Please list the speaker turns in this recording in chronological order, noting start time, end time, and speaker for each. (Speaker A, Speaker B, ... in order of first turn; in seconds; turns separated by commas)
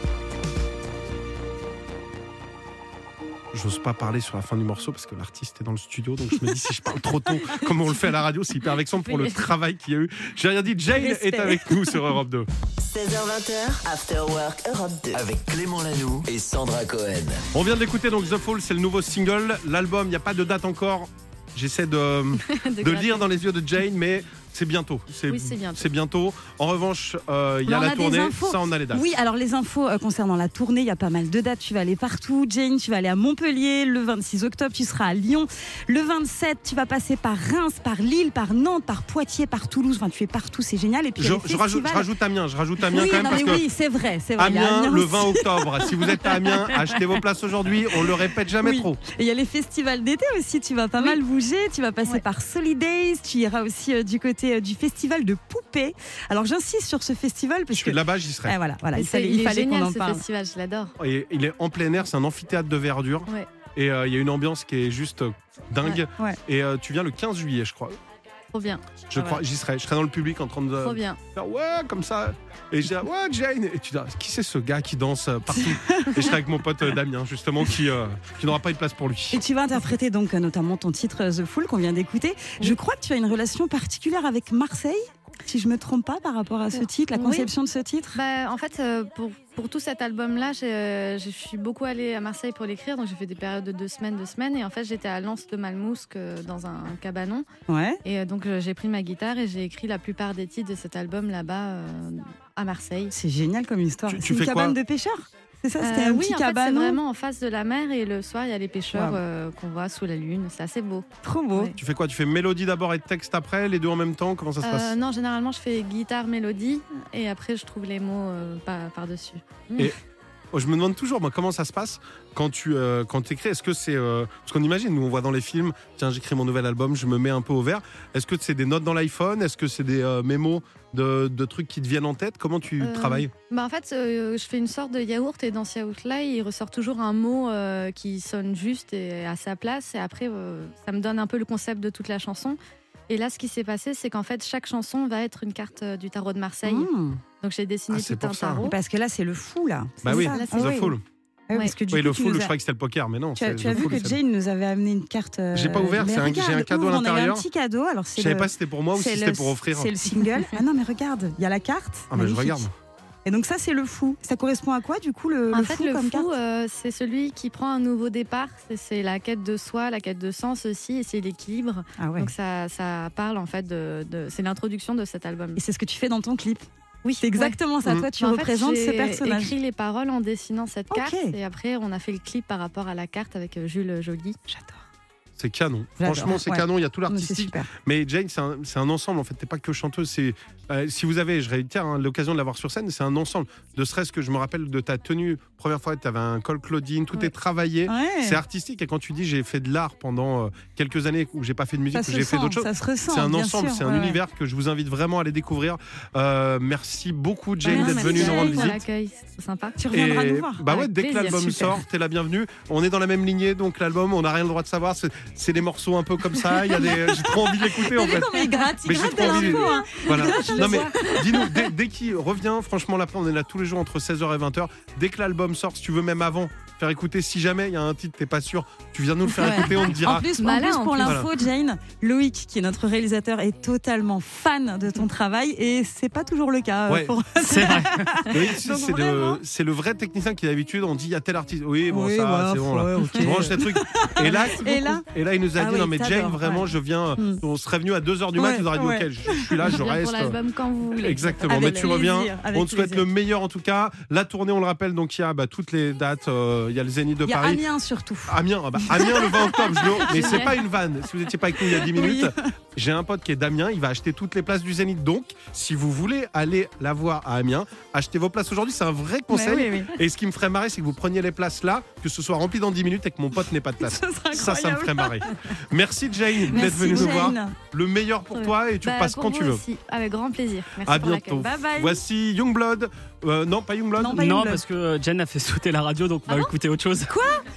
Speaker A: 3.5-12.5, Speaker B: 9.0-9.5, Speaker C: 10.9-11.8, Speaker D: 12.8-15.2, Speaker E: 15.1-17.4, Speaker A: 17.5-29.1, Speaker B: 22.4-23.2, Speaker B: 25.3-25.8, Speaker C: 27.6-42.1, Speaker A: 41.2-43.6, Speaker C: 42.9-47.0, Speaker B: 43.1-43.4, Speaker A: 44.4-49.0, Speaker C: 48.6-60.2, Speaker A: 57.7-58.5, Speaker B: 58.9-60.9, Speaker A: 61.0-68.0, Speaker C: 65.8-66.4, Speaker B: 68.5-69.0, Speaker A: 69.1-79.4, Speaker C: 69.1-69.4, Speaker B: 70.8-71.2, Speaker C: 75.5-76.3, Speaker C: 79.3-88.2, Speaker B: 86.8-87.5, Speaker B: 88.1-97.5, Speaker C: 97.7-98.0, Speaker B: 98.0-103.1, Speaker C: 103.1-107.0, Speaker A: 104.1-104.8, Speaker B: 105.8-111.8, Speaker C: 108.9-109.2, Speaker C: 111.2-111.7, Speaker A: 111.8-114.9, Speaker B: 114.6-119.9, Speaker A: 120.5-133.3, Speaker B: 132.8-142.6, Speaker B: 143.1-146.9, Speaker C: 146.7-147.2, Speaker B: 147.4-148.8, Speaker A: 147.9-148.7, Speaker C: 148.6-150.9, Speaker B: 150.0-150.9, Speaker A: 150.0-151.0, Speaker C: 151.5-152.5, Speaker A: 151.9-154.2, Speaker C: 153.4-162.7, Speaker A: 155.5-157.4, Speaker A: 158.2-159.9, Speaker A: 162.1-162.7, Speaker C: 163.2-166.3, Speaker B: 165.5-175.6, Speaker C: 172.0-172.3, Speaker C: 175.6-176.7, Speaker B: 177.0-177.6, Speaker C: 177.2-179.5, Speaker B: 178.2-184.4, Speaker C: 180.9-181.3, Speaker C: 184.5-184.8, Speaker A: 185.4-208.8, Speaker C: 186.0-187.7, Speaker C: 197.9-198.4, Speaker C: 201.9-204.2, Speaker C: 207.6-208.7, Speaker B: 207.6-209.8, Speaker C: 209.8-210.6, Speaker A: 209.9-230.2, Speaker B: 210.6-211.7, Speaker C: 216.8-221.4, Speaker B: 218.5-221.6, Speaker C: 229.3-239.4, Speaker B: 230.3-231.3, Speaker A: 231.0-231.3, Speaker A: 236.9-237.2, Speaker F: 237.4-238.2, Speaker A: 238.3-250.4, Speaker C: 241.9-245.0, Speaker C: 245.6-247.4, Speaker C: 248.3-249.7, Speaker B: 249.6-252.0, Speaker A: 251.0-257.6, Speaker C: 251.4-253.1, Speaker C: 257.2-260.6, Speaker A: 258.3-279.6, Speaker B: 260.1-260.6, Speaker C: 261.6-262.5, Speaker C: 269.3-269.9, Speaker C: 273.8-275.3, Speaker C: 276.5-277.6, Speaker B: 276.5-277.3, Speaker B: 278.3-281.5, Speaker A: 280.8-284.2, Speaker C: 281.3-282.0, Speaker C: 284.0-284.6, Speaker F: 284.1-287.1, Speaker C: 287.1-287.4